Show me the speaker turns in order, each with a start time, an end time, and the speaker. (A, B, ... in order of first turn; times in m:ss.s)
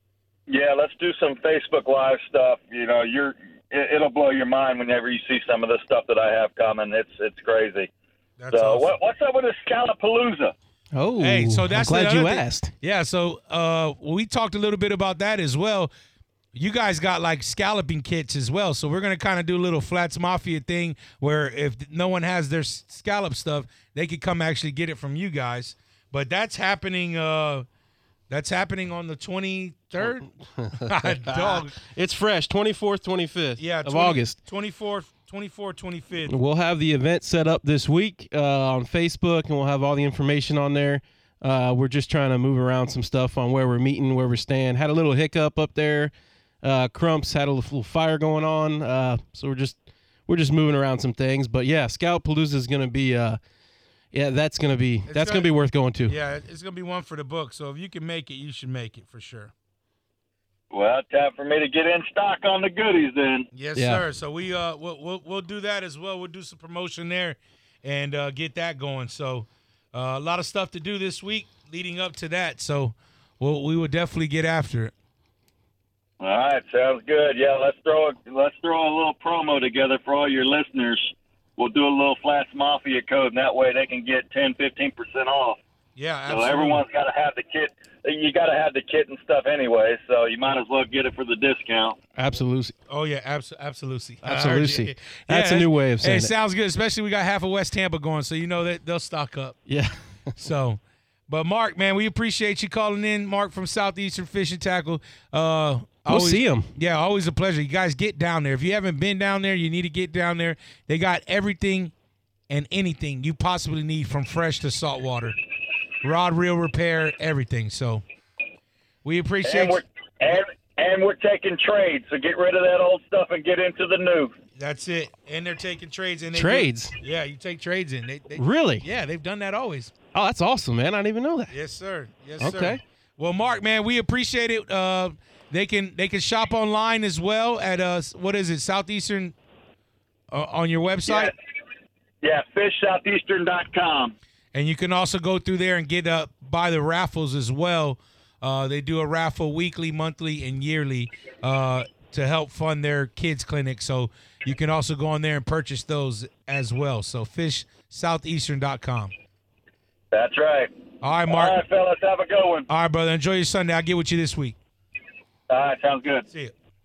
0:00.5-0:07.9 A
0:08.4-0:08.9 B
0:08.5-0:10.5 A
0:10.9-0:12.7 C
0:11.2-0:15.9 B
0:16.5-0:27.6 B
0:28.3-0:31.7 B
0:30.4-0:34.4 C
0:33.6-0:36.3 B
0:36.3-0:46.1 C
0:46.6-0:53.4 C
0:54.1-0:56.1 C
0:55.1-0:55.5 B
0:56.0-0:59.5 B
1:00.7-1:03.5 A
1:03.5-1:14.9 B
1:03.8-1:04.0 C
1:16.2-1:25.6 A
1:26.0-1:26.8 B
1:26.3-1:32.0 A
1:32.2-1:32.7 C
1:32.9-1:39.6 B
1:34.2-1:36.3 C
1:39.7-1:40.3 C
1:40.4-1:51.9 B
1:46.1-1:46.7 C
1:52.5-1:55.4 B
1:56.0-1:58.0 B
1:59.0-1:59.8 B
1:59.4-2:04.4 A
2:04.6-2:09.9 B
2:06.3-2:06.9 C
2:08.4-2:08.8 C
2:10.1-2:11.6 C
2:11.5-2:19.3 B
2:12.4-2:12.8 C
2:20.3-2:21.3 B
2:21.0-2:21.3 A
2:22.2-2:24.1 A
2:24.5-2:39.1 B
2:40.1-2:40.7 A
2:41.0-2:41.6 B
2:41.3-2:42.7 A
2:42.7-2:44.6 B
2:45.5-2:46.3 A